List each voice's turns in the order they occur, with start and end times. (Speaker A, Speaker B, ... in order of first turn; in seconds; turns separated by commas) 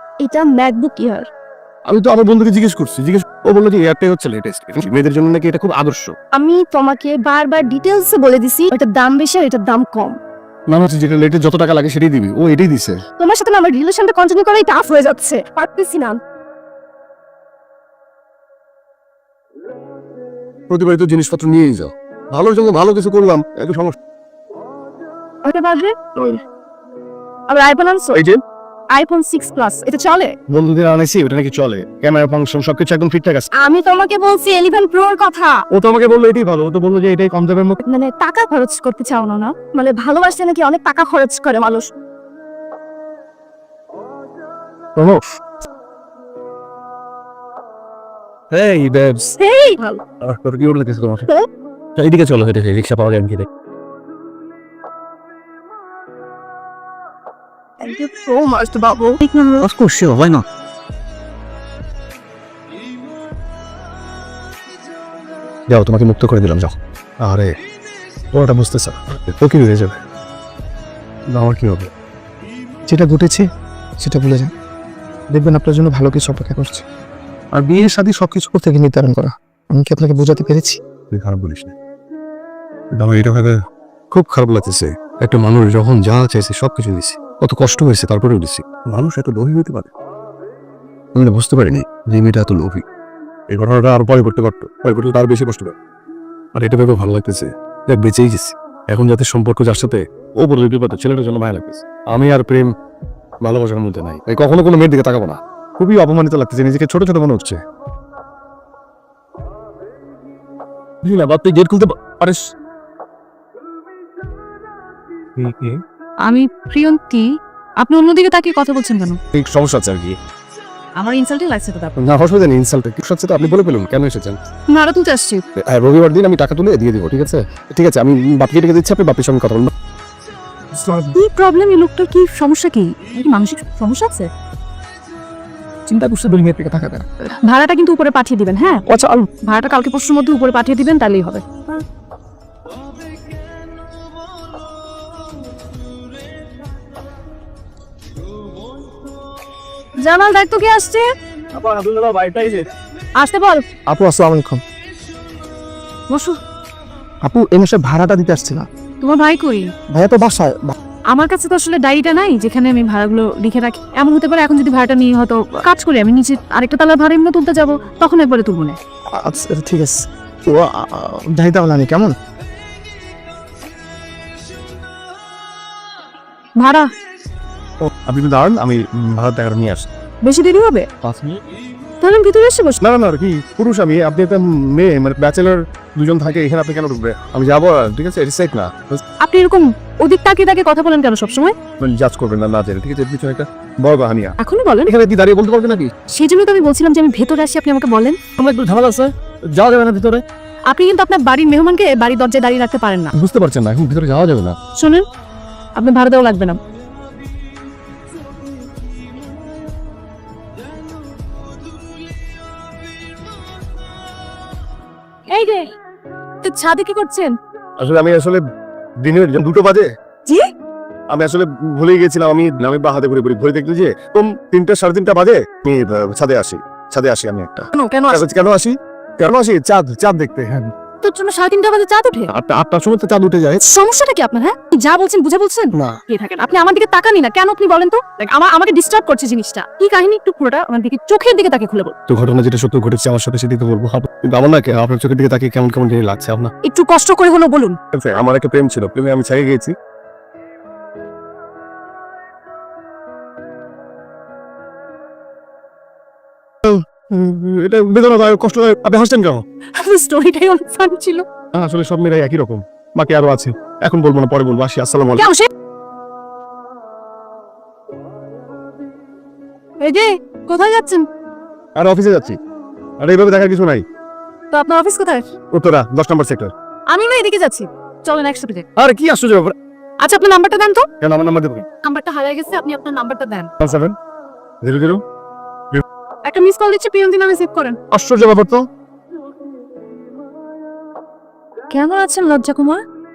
Speaker A: 0.2-1.3, Speaker B: 1.9-6.1, Speaker A: 6.3-10.2, Speaker B: 10.7-13.0, Speaker A: 13.2-16.2, Speaker B: 20.7-23.9, Speaker A: 25.4-26.4, Speaker A: 27.5-28.2, Speaker A: 28.9-30.3, Speaker B: 30.5-33.5, Speaker A: 33.6-35.6, Speaker B: 35.7-37.8, Speaker A: 37.9-41.9, Speaker B: 48.5-49.3, Speaker A: 49.4-50.0, Speaker B: 50.2-51.2, Speaker B: 52.0-53.5, Speaker A: 57.8-59.6, Speaker C: 59.6-60.4, Speaker B: 65.7-67.5, Speaker B: 68.3-70.0, Speaker B: 71.3-71.9, Speaker C: 72.9-73.5, Speaker C: 74.0-74.5, Speaker C: 75.3-76.8, Speaker C: 77.6-80.8, Speaker B: 81.1-81.7, Speaker B: 82.9-83.5, Speaker B: 84.1-89.9, Speaker B: 91.1-92.8, Speaker B: 93.5-95.7, Speaker B: 96.5-102.7, Speaker B: 103.4-107.6, Speaker B: 111.0-112.5, Speaker B: 115.4-115.8, Speaker D: 116.2-117.3, Speaker D: 117.8-119.2, Speaker B: 119.3-120.1, Speaker D: 121.0-121.9, Speaker B: 122.0-124.4, Speaker D: 124.7-125.4, Speaker B: 125.6-129.7, Speaker C: 130.8-131.1, Speaker D: 131.1-134.3, Speaker C: 135.9-137.0, Speaker D: 137.5-138.8, Speaker C: 138.9-139.2, Speaker D: 139.3-141.8, Speaker D: 150.0-151.1, Speaker B: 151.6-152.6, Speaker D: 153.2-153.6, Speaker C: 153.9-154.6, Speaker D: 156.1-156.4, Speaker C: 157.2-158.7, Speaker D: 159.0-159.7, Speaker C: 159.9-160.8, Speaker D: 161.1-168.8, Speaker C: 169.2-172.1, Speaker D: 176.6-176.9, Speaker B: 178.1-179.9, Speaker D: 180.2-180.9, Speaker B: 181.0-181.4, Speaker D: 182.0-182.8, Speaker B: 182.8-189.0, Speaker D: 189.2-191.6, Speaker B: 191.8-195.9, Speaker D: 194.4-194.9, Speaker D: 196.1-198.2, Speaker B: 198.4-200.2, Speaker D: 200.7-203.1, Speaker B: 203.1-204.6, Speaker D: 204.8-205.1, Speaker D: 205.8-206.6, Speaker D: 215.3-215.7, Speaker D: 216.4-217.3, Speaker A: 216.8-217.3, Speaker B: 217.8-218.4, Speaker B: 219.0-219.9, Speaker B: 221.1-230.7, Speaker D: 227.7-228.2, Speaker D: 231.0-232.3, Speaker B: 232.3-233.6, Speaker D: 233.6-241.9, Speaker B: 242.1-246.5, Speaker D: 246.7-247.8, Speaker B: 247.9-249.7, Speaker B: 256.6-259.4, Speaker D: 259.7-261.2, Speaker B: 261.5-265.3, Speaker D: 265.2-265.4, Speaker D: 269.8-271.0, Speaker B: 271.8-272.4, Speaker B: 273.0-273.8, Speaker D: 274.5-275.3, Speaker B: 275.5-276.5, Speaker D: 276.9-278.6, Speaker B: 278.8-279.5, Speaker D: 280.0-280.9, Speaker B: 281.0-281.7, Speaker D: 281.7-283.5, Speaker B: 283.6-283.9, Speaker B: 284.6-285.0, Speaker D: 286.2-287.8, Speaker B: 287.9-288.6, Speaker D: 291.7-292.8